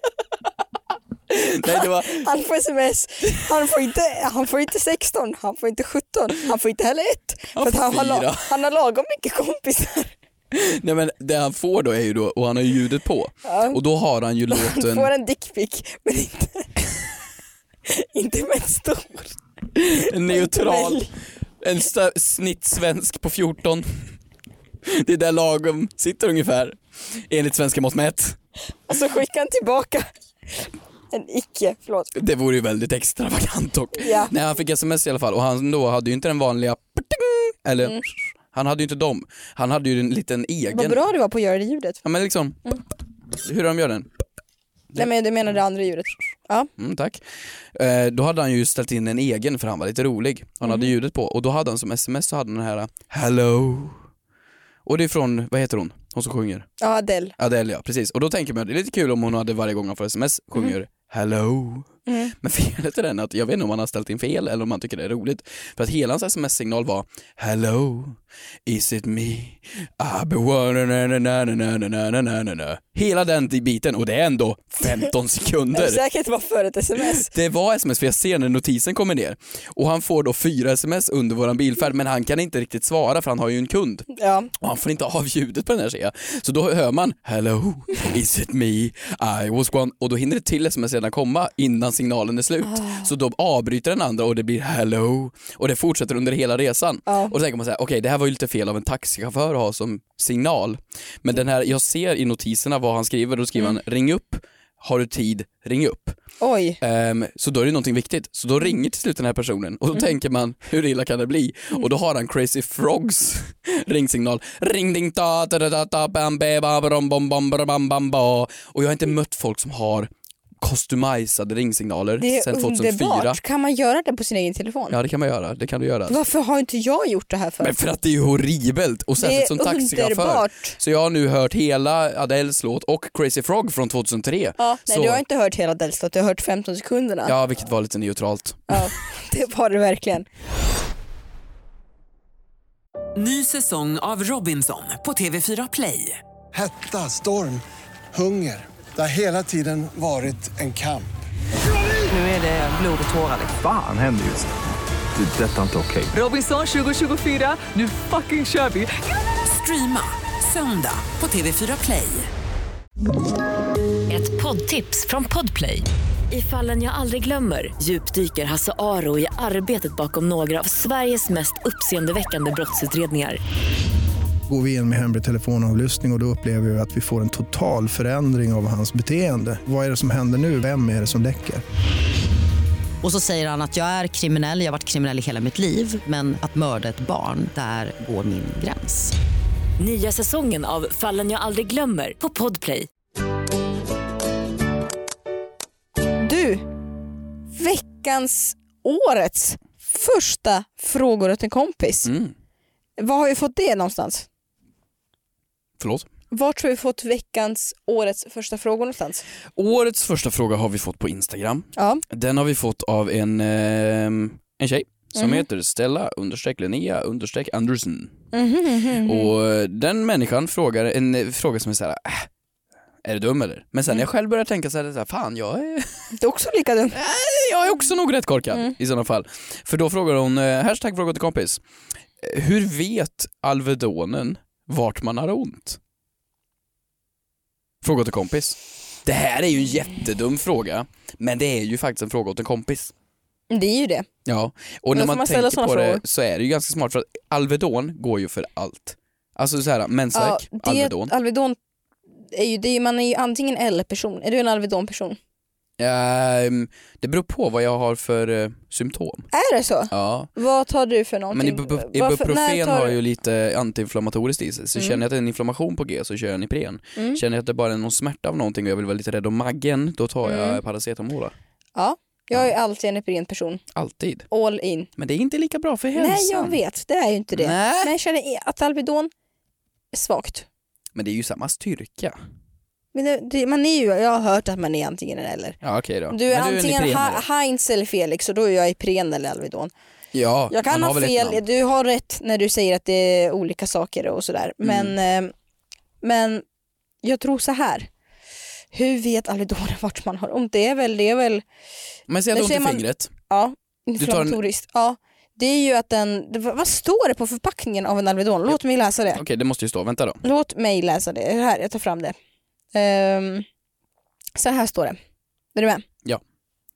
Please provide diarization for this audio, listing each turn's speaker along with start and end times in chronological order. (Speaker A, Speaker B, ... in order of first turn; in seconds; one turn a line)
Speaker A: 1.3-2.3
Speaker B: 1.6-10.1
Speaker A: 7.5-8.6
Speaker A: 10.5-15.1
Speaker B: 13.4-13.8
Speaker B: 14.5-16.7
Speaker B: 17.9-19.4
Speaker A: 19.8-21.1
Speaker B: 20.0-21.1
Speaker A: 21.6-24.0
Speaker A: 24.9-28.4
Speaker B: 28.9-32.1
Speaker A: 32.1-41.0
Speaker B: 34.0-34.3
Speaker B: 40.7-42.0
Speaker A: 42.0-42.7
Speaker A: 43.3-44.2
Speaker B: 45.0-46.7
Speaker A: 46.8-54.0
Speaker A: 54.9-56.7
Speaker B: 56.8-57.4
Speaker A: 57.4-76.0
Speaker B: 62.1-62.3
Speaker B: 75.7-77.3
Speaker A: 77.0-106.2
Speaker B: 84.2-84.5
Speaker B: 92.7-93.1
Speaker B: 97.1-97.4
Speaker B: 106.4-106.8
Speaker A: 106.8-123.4
Speaker B: 122.2-125.0
Speaker A: 124.9-126.2
Speaker B: 126.1-127.7
Speaker A: 127.6-135.2
Speaker B: 129.2-130.8
Speaker B: 134.6-137.3
Speaker A: 137.2-138.9
Speaker B: 138.7-140.3
Speaker C: 143.2-146.2
Speaker D: 146.5-151.1
Speaker C: 152.1-153.5
Speaker E: 153.5-154.5
Speaker E: 155.2-156.2
Speaker C: 156.2-162.3
Speaker F: 164.1-173.4
Speaker G: 174.5-181.6
Speaker H: 183.0-189.2
Speaker F: 189.8-192.9
Speaker B: 196.2-196.7
Speaker B: 197.5-202.1
Speaker A: 202.1-202.3
Speaker B: 203.0-204.3
Speaker A: 205.8-206.1
Speaker B: 206.3-209.2
Speaker A: 209.6-218.2
Speaker B: 211.8-212.0
Speaker B: 215.2-215.4
Speaker B: 218.3-219.3
Speaker A: 219.0-222.3
Speaker A: 223.0-226.1
Speaker B: 226.2-227.0
Speaker A: 226.9-231.6
Speaker A: 232.2-235.8
Speaker A: 237.8-242.9
Speaker B: 243.5-244.1
Speaker A: 244.2-251.1
Speaker B: 244.9-246.0
Speaker B: 250.1-251.6
Speaker B: 252.3-255.2
Speaker A: 255.8-259.3
Speaker B: 259.3-263.0
Speaker A: 259.9-260.3
Speaker A: 261.3-271.4
Speaker B: 264.8-265.0
Speaker B: 270.2-270.6
Speaker B: 271.8-273.6
Speaker A: 273.7-274.3
Speaker B: 274.3-274.9
Speaker A: 275.0-276.6
Speaker B: 275.9-279.1
Speaker A: 277.3-277.9
Speaker B: 279.9-280.5
Speaker A: 280.9-282.2
Speaker B: 282.9-285.6
Speaker A: 285.6-287.2
Speaker B: 286.1-289.7
Speaker A: 290.1-291.4
Speaker B: 290.5-295.3
Speaker A: 294.6-294.9
Speaker B: 296.0-296.4
Speaker B: 297.0-297.9
Speaker B: 298.7-301.4
Speaker A: 302.1-303.1
Speaker B: 302.3-309.2
Speaker A: 304.0-304.4
Speaker A: 309.1-310.2
Speaker B: 310.2-312.2
Speaker B: 312.7-313.5
Speaker B: 314.4-315.0
Speaker B: 315.6-315.9